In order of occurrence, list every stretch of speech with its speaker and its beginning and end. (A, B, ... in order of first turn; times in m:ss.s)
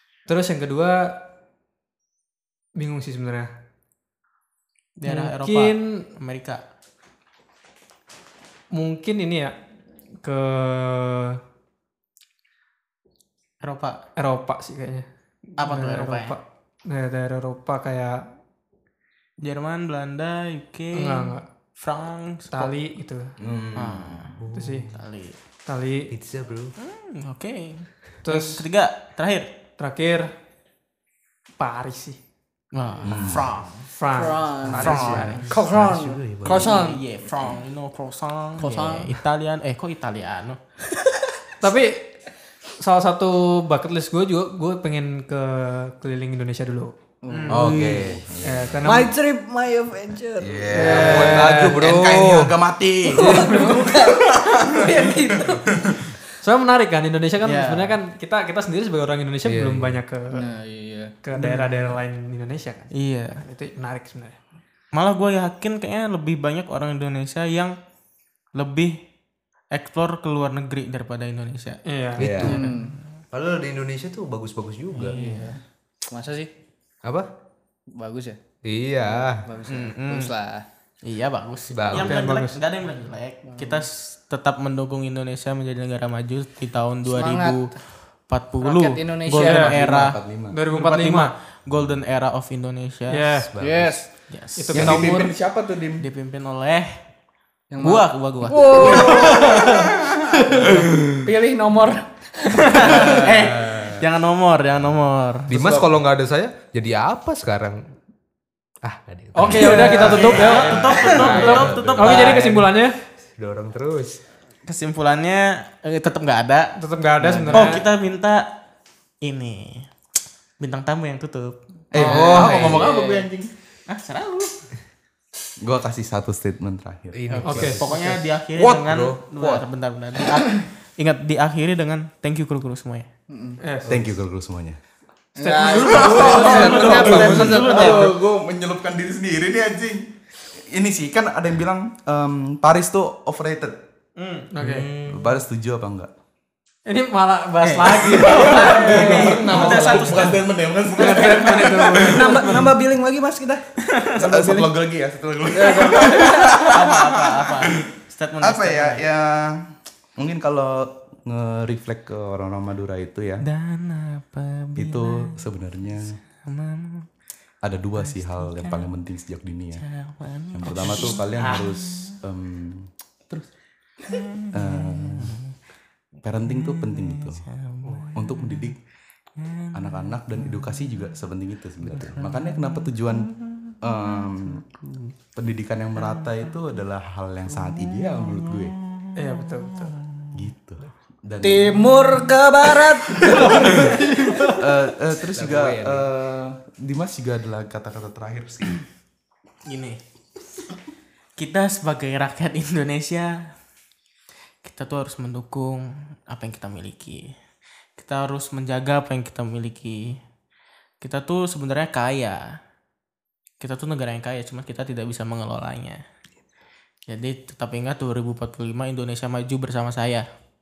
0:00.3-0:01.1 A
0:02.8-0:03.5 A
0:05.0-0:06.6 B
0:05.1-0:06.0 A
0:08.7-0:09.5 A
0:10.2-0:11.4 A
0:13.6-0:14.0 B
0:14.2-0:15.0 A
0:15.6-0:16.3 B
0:15.6-0:18.2 A
0:19.4-0:22.7 B
0:20.9-0:21.4 A
0:22.5-0:23.4 A
0:23.4-0:24.4 C
0:23.7-0:25.4 B
0:24.4-0:24.8 D
0:24.5-0:24.9 A
0:25.7-0:26.1 A
0:26.1-0:26.7 D
0:26.8-0:29.5 B
0:28.2-0:28.6 A
0:29.8-0:30.3 A
0:31.6-0:32.2 A
0:32.7-0:33.9 B
0:33.0-0:33.5 C
0:34.0-0:34.4 A
0:34.1-0:37.6 E
0:34.6-0:36.8 D
0:34.7-0:35.5 B
0:36.4-0:40.6 B
0:38.6-0:39.2 E
0:41.6-0:42.1 A
0:42.8-0:46.9 A
0:47.2-0:48.1 E
0:47.3-0:48.0 B
0:47.5-0:48.8 C
0:48.4-0:49.1 A
0:48.8-0:51.5 E
0:50.4-0:56.1 C
0:50.7-0:51.8 A
0:50.8-0:52.5 D
0:53.1-0:55.7 E
0:53.2-0:53.7 A
0:56.4-1:00.5 A
0:57.4-0:58.0 B
0:59.4-1:00.0 D
1:00.3-1:01.1 E
1:01.2-1:04.4 A
1:02.9-1:03.4 B
1:04.9-1:07.8 B
1:08.5-1:09.0 B
1:09.7-1:11.8 B
1:11.8-1:12.5 A
1:12.2-1:12.6 D
1:12.2-1:12.6 C
1:12.4-1:13.0 B
1:12.5-1:12.9 E
1:13.3-1:15.2 D
1:14.9-1:15.6 B
1:15.1-1:16.5 E
1:17.9-1:18.4 E
1:18.6-1:19.4 D
1:19.1-1:20.6 E
1:19.6-1:20.3 B
1:21.0-1:27.7 B
1:21.7-1:22.2 D
1:21.9-1:22.6 A
1:23.6-1:23.8 E
1:27.0-1:27.7 E
1:28.3-1:33.3 B
1:28.6-1:29.9 E
1:29.4-1:29.7 A
1:29.7-1:30.6 C
1:30.5-1:31.3 A
1:33.1-1:33.5 A
1:33.4-1:34.0 D
1:33.6-1:34.0 E
1:34.3-1:35.1 B
1:34.6-1:35.3 A
1:34.7-1:36.0 C
1:36.0-1:36.9 B
1:37.7-1:43.3 E
1:37.8-1:39.8 B
1:38.8-1:41.3 C
1:42.5-1:45.5 B
1:42.8-1:44.0 C
1:45.5-1:47.8 D
1:45.5-1:45.9 C
1:48.8-1:52.7 D
1:49.3-1:52.9 A
1:49.5-1:52.3 C
1:49.5-1:52.5 B
1:53.3-1:54.2 D
1:54.7-1:58.5 B
1:56.8-1:57.8 A
1:59.2-1:59.9 B
2:00.6-2:01.6 B
2:01.9-2:03.5 C
2:02.0-2:03.3 E
2:02.0-2:02.8 D
2:03.9-2:04.5 B
2:05.6-2:07.2 C
2:07.1-2:09.5 D
2:07.3-2:13.1 B
2:07.4-2:08.0 A
2:10.3-2:10.6 C
2:13.3-2:13.6 E
2:13.6-2:14.0 A
2:13.9-2:14.8 C
2:15.4-2:18.1 E
2:15.4-2:18.1 B
2:15.7-2:20.1 C
2:16.9-2:17.8 D
2:20.7-2:23.8 C
2:24.2-2:24.5 B
2:24.5-2:24.9 A
2:24.6-2:25.4 D
2:25.1-2:26.1 C
2:26.9-2:30.3 A
2:27.6-2:30.4 B
2:28.1-2:32.7 C
2:28.3-2:29.9 E
2:30.9-2:32.7 A
2:31.0-2:31.3 E
2:32.0-2:33.6 E
2:33.8-2:34.2 B
2:34.2-2:34.8 E
2:34.2-2:43.4 C
2:35.5-2:36.7 E
2:36.1-2:39.0 B
2:43.4-2:45.5 B
2:44.8-2:46.2 C
2:46.4-2:47.1 B
2:47.6-2:49.8 C
2:48.0-2:48.9 B
2:49.8-2:52.2 B
2:50.5-2:53.5 C
2:50.7-2:51.5 D
2:54.0-2:55.5 B
2:54.5-2:55.4 C
2:56.2-2:57.4 C
2:56.4-2:58.7 B
2:58.1-2:58.8 C
2:59.4-3:00.7 B
2:59.7-3:04.6 C
3:01.9-3:05.1 B
3:05.3-3:08.7 C
3:06.0-3:06.5 B
3:07.5-3:10.4 B
3:09.1-3:10.0 A
3:10.3-3:11.9 C
3:11.4-3:14.5 E
3:12.2-3:14.5 B
3:13.3-3:13.9 C
3:14.6-3:18.8 C
3:15.3-3:16.1 D
3:19.6-3:20.0 B
3:21.4-3:23.5 B
3:24.6-3:27.3 B
3:28.0-3:30.2 B
3:31.0-3:32.6 B
3:33.6-3:36.0 B
3:37.1-3:40.2 B